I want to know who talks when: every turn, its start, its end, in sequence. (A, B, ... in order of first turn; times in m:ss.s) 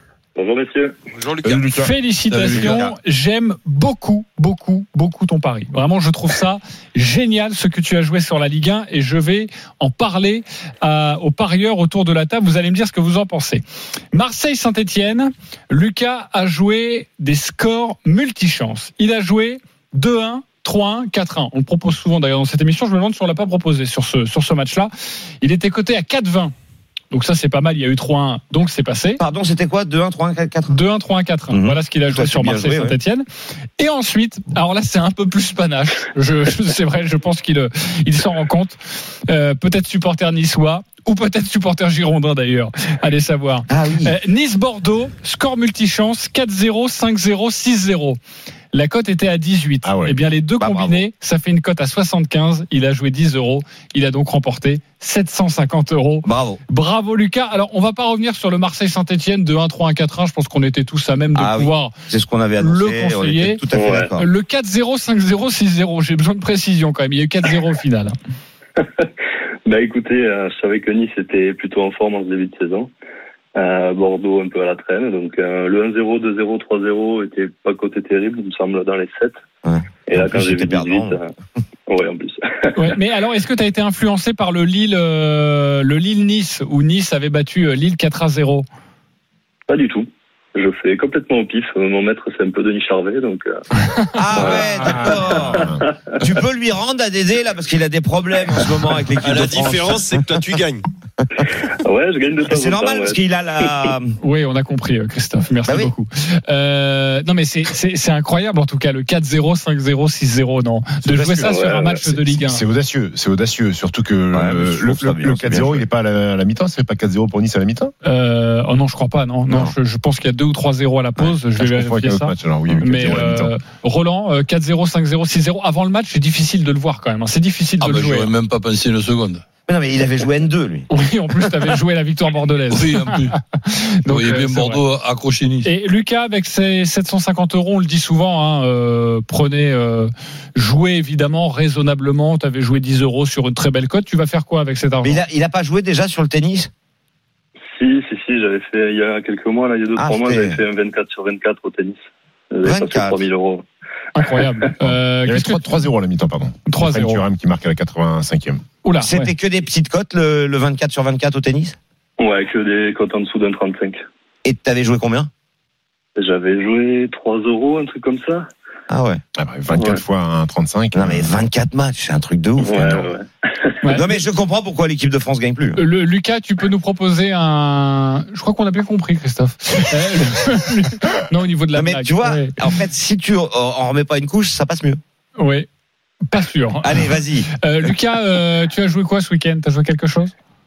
0:00.4-0:00.9 A
0:01.1-0:01.6 B
0:01.4-0:01.9 C
0:01.8-0:13.6 D
0:02.3-0:02.9 E
0:02.5-0:02.9 F
0:14.1-0:24.9 D
0:25.4-0:26.5 D
0:27.1-0:29.2 D
0:29.2-0:30.7 F
0:30.7-0:33.2 D
0:31.5-0:33.0 F
0:33.8-0:48.2 D
0:43.7-0:44.1 F
0:48.7-1:01.9 D
0:49.8-0:50.2 C
0:50.6-0:51.0 F
0:56.2-0:56.6 F
1:01.3-1:04.2 F
1:02.6-1:08.1 D
1:03.7-1:04.1 A
1:08.8-1:09.1 A
1:09.6-1:12.9 A
1:13.5-1:19.4 A
1:19.6-1:21.2 F
1:20.1-1:21.3 A
1:21.9-1:23.0 A
1:22.8-1:28.6 D
1:29.7-1:33.6 A
1:34.0-1:34.6 D
1:34.1-1:40.2 F
1:34.3-1:35.7 A
1:34.8-1:35.8 C
1:39.2-1:40.8 B
1:41.8-1:43.9 A
1:42.5-1:44.2 F
1:44.2-1:52.6 D
1:45.6-1:45.9 F
1:51.0-1:57.9 C
1:51.4-1:52.1 A
1:54.3-1:55.8 F
1:58.0-2:08.3 D
2:01.2-2:03.5 C
2:07.8-2:09.4 E
2:09.7-2:10.9 F
2:10.9-2:14.8 D
2:12.7-2:13.4 E
2:14.1-2:15.7 E
2:15.6-2:25.2 D
2:25.0-2:26.7 F
2:27.7-2:32.0 A
2:30.0-2:30.6 F
2:32.5-2:33.6 A
2:32.6-2:33.3 F
2:34.1-2:35.6 D
2:34.2-2:34.5 A
2:34.8-2:38.6 C
2:36.7-2:37.2 D
2:38.8-2:39.3 D
2:39.0-2:41.8 F
2:42.2-2:44.0 A
2:44.4-2:45.3 F
2:46.2-2:48.5 A
2:48.9-2:49.2 F
2:49.4-2:51.3 C
2:49.7-2:50.0 A
2:50.9-2:53.1 F
2:52.6-2:53.7 A
2:53.9-2:55.8 F
2:55.8-3:02.6 D
3:01.7-3:05.0 F
3:05.4-3:05.7 D
3:06.3-3:10.3 D
3:06.8-3:07.9 F